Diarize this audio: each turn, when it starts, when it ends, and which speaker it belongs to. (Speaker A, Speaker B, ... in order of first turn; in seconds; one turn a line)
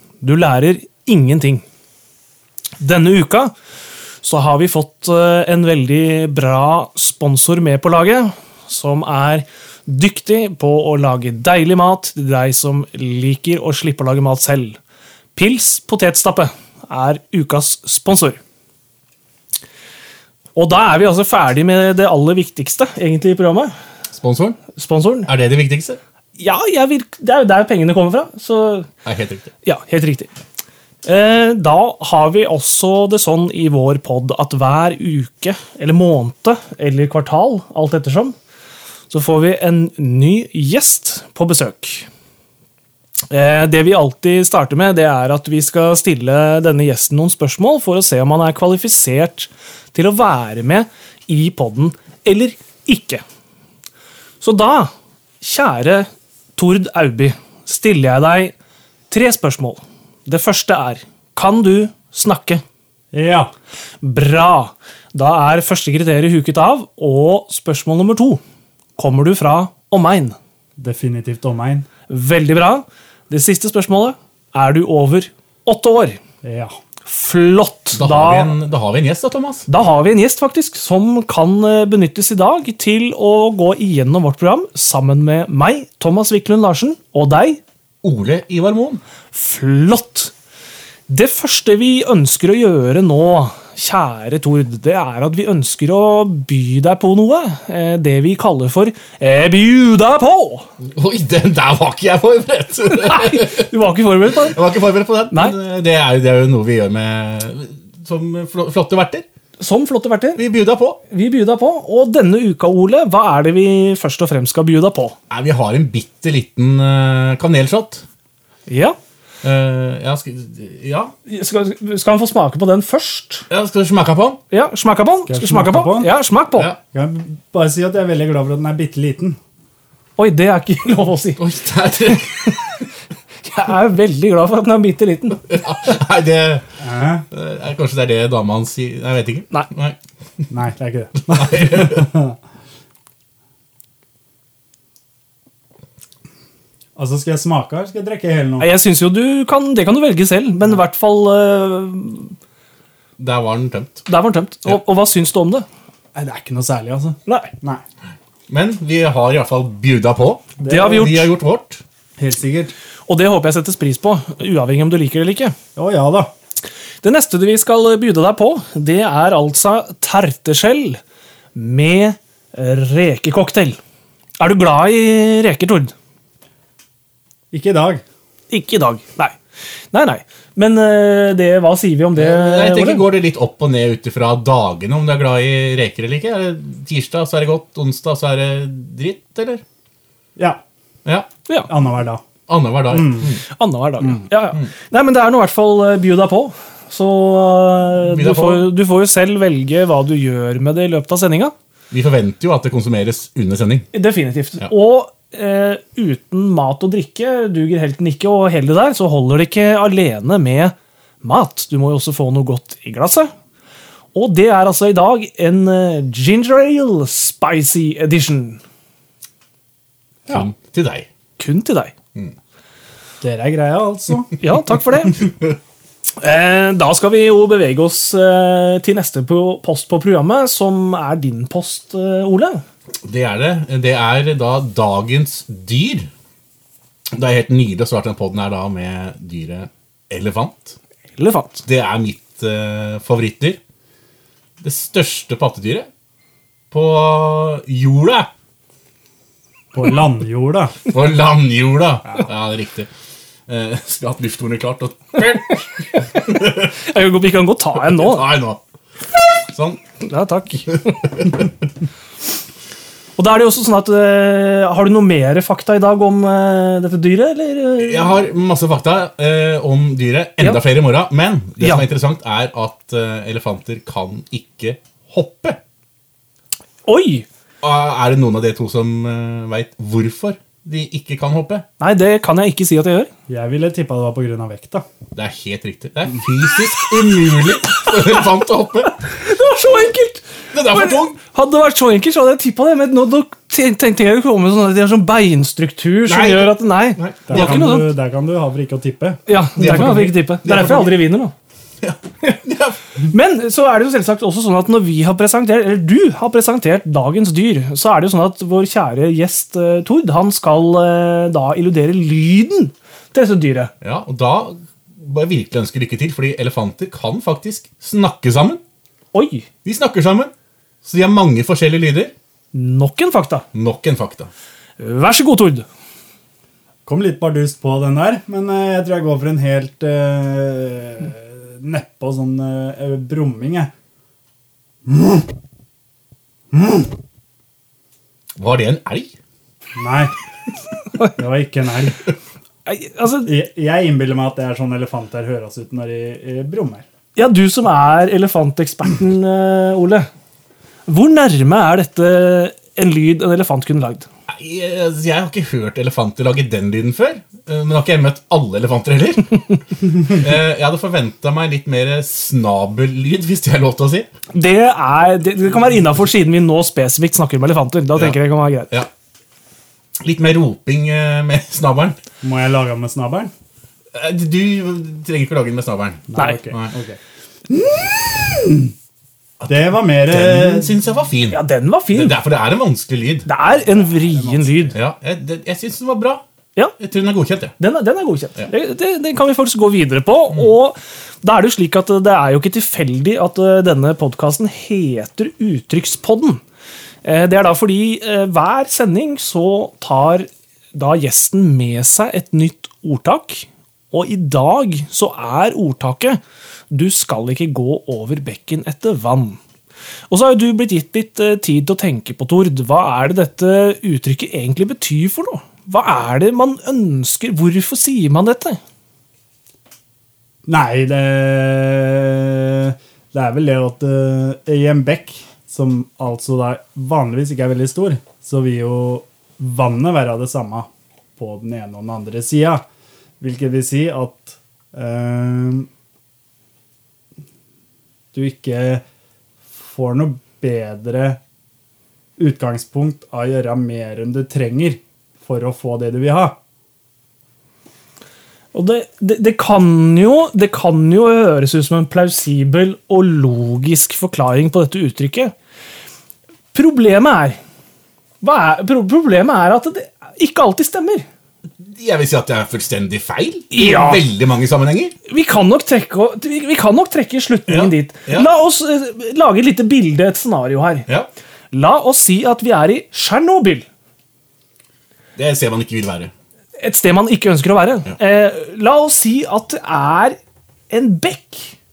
Speaker A: 0.2-1.6
Speaker A: 2.8-3.5
Speaker A: 4.2-14.8
Speaker A: 15.3-18.4
Speaker A: 20.6-23.7
Speaker B: 24.1-24.6
Speaker A: 24.7-25.3
Speaker B: 25.2-26.0
Speaker A: 26.4-28.9
Speaker B: 29.1-29.5
Speaker A: 29.6-30.3
Speaker A: 31.1-38.4
Speaker A: 39.1-42.1
Speaker A: 43.3-53.2
Speaker A: 54.4-54.9
Speaker A: 55.4-58.5
Speaker A: 59.1-62.6
Speaker C: 63.1-63.5
Speaker A: 64.0-68.4
Speaker A: 69.0-70.4
Speaker C: 70.8-71.9
Speaker A: 72.1-76.2
Speaker C: 76.4-76.7
Speaker A: 77.0-78.6
Speaker B: 78.0-79.7
Speaker A: 79.7-87.6
Speaker B: 88.0-89.0
Speaker A: 89.3-90.3
Speaker A: 91.1-100.7
Speaker B: 100.9-103.7
Speaker A: 102.9-104.6
Speaker B: 104.3-109.2
Speaker A: 105.3-105.6
Speaker A: 109.6-110.4
Speaker B: 110.4-111.0
Speaker A: 111.1-115.2
Speaker B: 115.3-118.0
Speaker A: 118.7-119.0
Speaker B: 119.4-121.1
Speaker A: 121.3-123.5
Speaker B: 123.5-124.4
Speaker A: 124.5-126.8
Speaker C: 125.3-126.1
Speaker C: 126.9-129.4
Speaker A: 130.2-131.4
Speaker B: 131.4-132.6
Speaker A: 132.1-132.5
Speaker A: 133.4-135.5
Speaker B: 135.5-136.7
Speaker C: 136.8-137.2
Speaker B: 137.3-140.0
Speaker C: 140.5-142.4
Speaker B: 141.3-142.1
Speaker C: 147.0-148.7
Speaker A: 148.6-152.3
Speaker B: 153.2-154.1
Speaker A: 154.1-155.7
Speaker C: 156.2-157.8
Speaker A: 157.3-157.5
Speaker B: 158.5-161.8
Speaker C: 160.6-161.1
Speaker A: 160.6-161.3
Speaker C: 162.2-162.7
Speaker A: 163.1-165.6
Speaker C: 165.8-166.3
Speaker A: 167.0-171.0
Speaker A: 171.6-173.8
Speaker A: 174.4-175.9
Speaker C: 177.5-178.0
Speaker A: 178.5-179.3
Speaker A: 179.9-183.1
Speaker B: 182.2-189.6
Speaker C: 190.4-190.6
Speaker C: 191.7-192.2
Speaker B: 192.5-193.4
Speaker C: 192.9-193.4
Speaker A: 193.5-201.5
Speaker B: 198.0-198.7
Speaker B: 201.9-203.9
Speaker A: 203.9-213.3
Speaker A: 214.1-218.6
Speaker B: 220.3-221.1
Speaker A: 221.4-221.9
Speaker C: 223.2-224.4
Speaker A: 224.4-225.3
Speaker A: 226.2-232.6
Speaker B: 233.0-236.1
Speaker B: 237.2-240.8
Speaker A: 241.2-241.6
Speaker B: 241.7-243.6
Speaker B: 244.6-245.9
Speaker B: 246.7-248.3
Speaker C: 249.7-250.8
Speaker B: 250.9-252.9
Speaker B: 253.5-256.7
Speaker A: 255.2-258.3
Speaker B: 257.8-258.6
Speaker B: 259.5-259.8
Speaker A: 260.0-261.1
Speaker A: 263.2-268.3
Speaker B: 267.8-275.6
Speaker A: 271.6-271.9
Speaker A: 276.9-277.3
Speaker B: 277.6-281.6
Speaker A: 281.8-283.1
Speaker C: 283.3-284.9
Speaker B: 285.1-289.0
Speaker A: 289.0-297.9
Speaker B: 290.5-291.2
Speaker B: 296.1-297.6
Speaker C: 297.3-299.2
Speaker A: 299.3-301.3
Speaker B: 299.6-301.0
Speaker B: 301.8-302.8
Speaker A: 303.0-313.7
Speaker B: 313.8-318.6
Speaker A: 319.1-319.5
Speaker B: 319.6-320.3
Speaker B: 320.8-322.1
Speaker A: 322.5-323.5
Speaker B: 323.5-324.3
Speaker A: 324.8-325.7
Speaker C: 326.9-333.7
Speaker C: 334.9-335.3
Speaker C: 336.5-336.9
Speaker B: 338.4-339.1
Speaker C: 339.8-340.1
Speaker C: 341.2-342.1
Speaker A: 342.7-343.3
Speaker C: 343.2-346.9
Speaker A: 347.2-350.1
Speaker A: 350.9-354.1
Speaker B: 354.3-364.1
Speaker A: 364.3-368.8
Speaker B: 367.9-368.2
Speaker B: 370.0-372.0
Speaker C: 372.2-373.3
Speaker B: 373.9-376.7
Speaker C: 376.1-377.0
Speaker A: 376.1-376.5
Speaker C: 377.5-378.7
Speaker B: 379.4-383.3
Speaker C: 379.5-380.7
Speaker A: 381.3-382.2
Speaker A: 383.2-384.8
Speaker C: 383.6-384.7
Speaker B: 384.7-386.2
Speaker B: 386.8-387.6
Speaker A: 387.6-396.4
Speaker A: 397.0-406.2
Speaker A: 406.7-409.4
Speaker A: 410.1-418.6
Speaker C: 420.5-432.6
Speaker C: 433.2-435.7
Speaker C: 438.1-438.8
Speaker C: 439.6-441.2
Speaker C: 442.2-446.4
Speaker A: 448.5-455.3
Speaker A: 456.5-457.4
Speaker A: 458.2-461.1
Speaker B: 461.6-464.9
Speaker A: 463.5-464.1
Speaker A: 465.1-470.9
Speaker B: 467.5-468.3
Speaker A: 471.5-473.7
Speaker B: 475.2-476.1
Speaker A: 476.6-480.2
Speaker A: 480.7-481.6